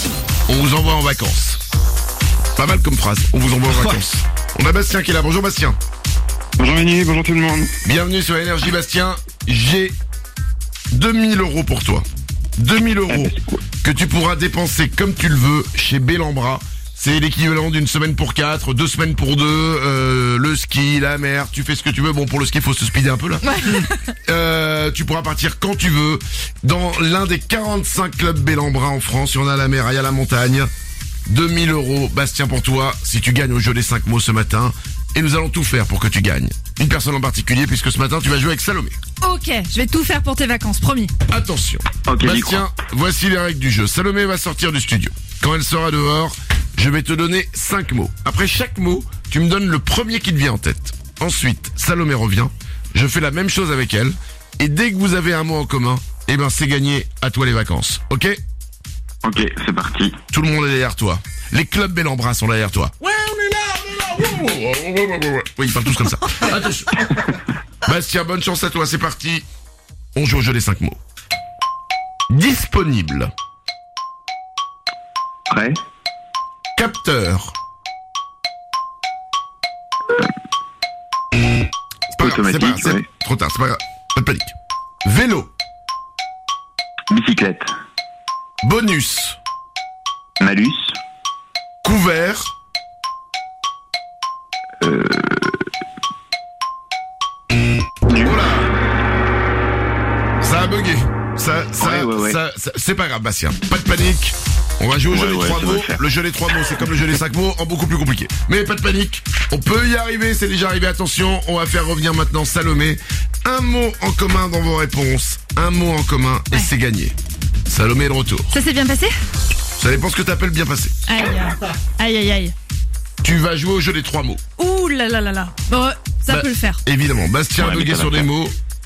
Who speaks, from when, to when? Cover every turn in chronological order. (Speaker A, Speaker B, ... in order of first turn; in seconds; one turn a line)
Speaker A: 0.5-1.6
Speaker A: 2.5-5.8
Speaker B: 6.6-7.7
Speaker A: 7.8-9.9
Speaker A: 10.9-12.0
Speaker A: 12.6-30.7
Speaker B: 13.1-13.4
Speaker C: 23.5-23.9
Speaker A: 31.3-39.0
Speaker C: 39.2-41.1
Speaker A: 41.3-58.4
Speaker B: 42.0-42.6
Speaker B: 59.2-60.2
Speaker A: 60.3-67.0
Speaker A: 67.8-69.4
Speaker A: 70.1-71.0
Speaker A: 72.3-73.3
Speaker B: 75.5-75.8
Speaker A: 76.8-77.5
Speaker A: 82.1-84.5
Speaker B: 82.2-83.0
Speaker A: 85.0-85.5
Speaker B: 87.1-87.7
Speaker A: 88.6-89.4
Speaker B: 90.4-90.9
Speaker A: 91.8-92.5
Speaker B: 94.8-95.6
Speaker B: 98.1-98.4
Speaker A: 98.2-98.7
Speaker A: 100.4-117.1
Speaker B: 101.8-102.4
Speaker B: 105.1-106.0
Speaker A: 117.7-118.5
Speaker C: 118.5-119.1
Speaker A: 119.8-120.9
Speaker C: 121.0-122.5
Speaker A: 123.2-124.4
Speaker C: 124.6-126.8
Speaker A: 126.3-128.5
Speaker B: 127.6-128.3